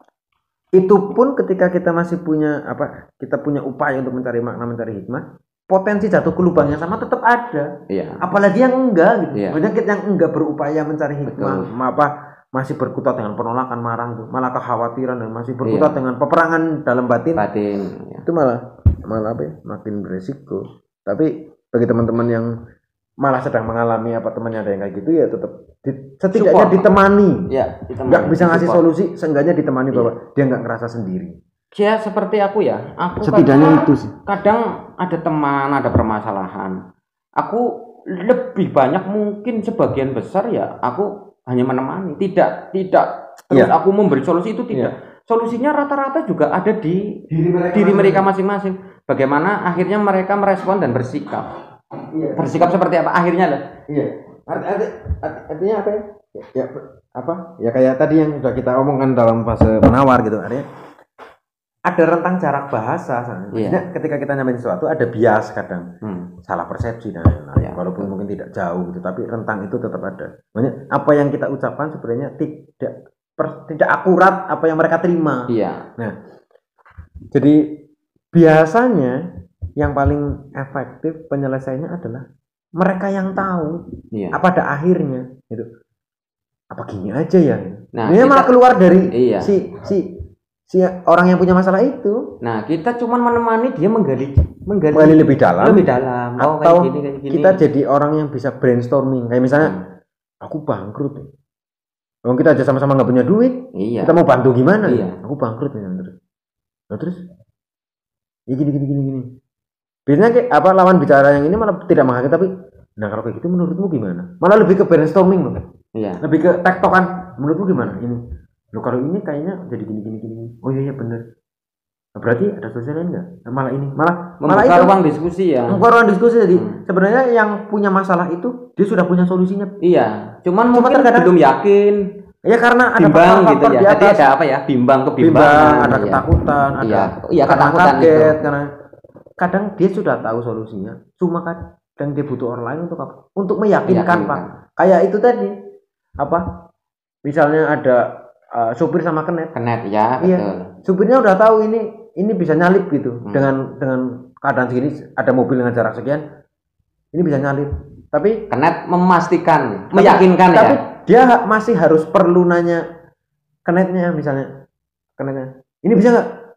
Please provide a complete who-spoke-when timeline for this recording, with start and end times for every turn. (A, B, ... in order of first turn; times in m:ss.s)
0:00.8-0:07.7 A
0:07.9-0:08.2 B
0:08.2-0:17.4 A
0:09.3-0:09.6 B
0:11.3-0:11.7 B
0:15.6-0:16.0 B
0:17.4-0:18.2 B
0:18.2-0:22.5 A
0:23.2-0:27.5 A
0:26.3-0:26.9 B
0:27.5-0:28.8 B
0:28.1-0:31.4 A
0:31.7-0:36.8 B
0:33.2-0:34.1 A
0:37.4-0:47.2 B
0:47.3-0:48.3 A
0:47.7-0:51.5 B
0:52.1-0:52.8 A
0:52.4-0:53.6 B
0:53.9-1:00.7 A
1:01.9-1:05.9 A
1:03.5-1:03.8 B
1:06.0-1:06.3 B
1:06.5-1:15.4 A
1:07.6-1:08.1 B
1:15.5-1:15.9 B
1:17.3-1:17.8 A
1:18.3-1:19.2 A
1:19.8-1:22.2 A
1:22.8-1:23.8 A
1:24.1-1:24.4 B
1:24.3-1:25.7 A
1:26.7-1:30.0 A
1:28.0-1:28.5 B
1:29.1-1:29.5 B
1:30.7-1:32.2 A
1:32.4-1:37.6 B
1:34.9-1:35.8 A
1:36.4-1:39.8 A
1:40.4-1:41.3 A
1:42.3-1:46.1 A
1:43.8-1:44.2 B
1:44.8-1:45.2 B
1:46.9-1:47.2 A
1:48.5-1:49.3 A
1:50.1-1:55.6 A
1:56.0-1:56.2 B
1:56.2-1:58.2 A
1:58.7-2:01.2 A
2:02.2-2:05.0 A
2:04.4-2:05.9 B
2:05.7-2:09.7 A
2:09.8-2:12.0 B
2:10.7-2:11.4 A
2:12.4-2:14.3 A
2:13.0-2:16.3 B
2:15.2-2:18.7 A
2:16.8-2:18.4 B
2:19.4-2:25.5 A
2:23.9-2:24.5 B
2:27.2-2:29.5 A
2:29.5-2:30.7 B
2:30.2-2:36.2 A
2:37.1-2:38.4 A
2:38.5-2:40.8 B
2:39.9-2:42.8 A
2:43.7-2:44.5 A
2:45.2-2:46.2 A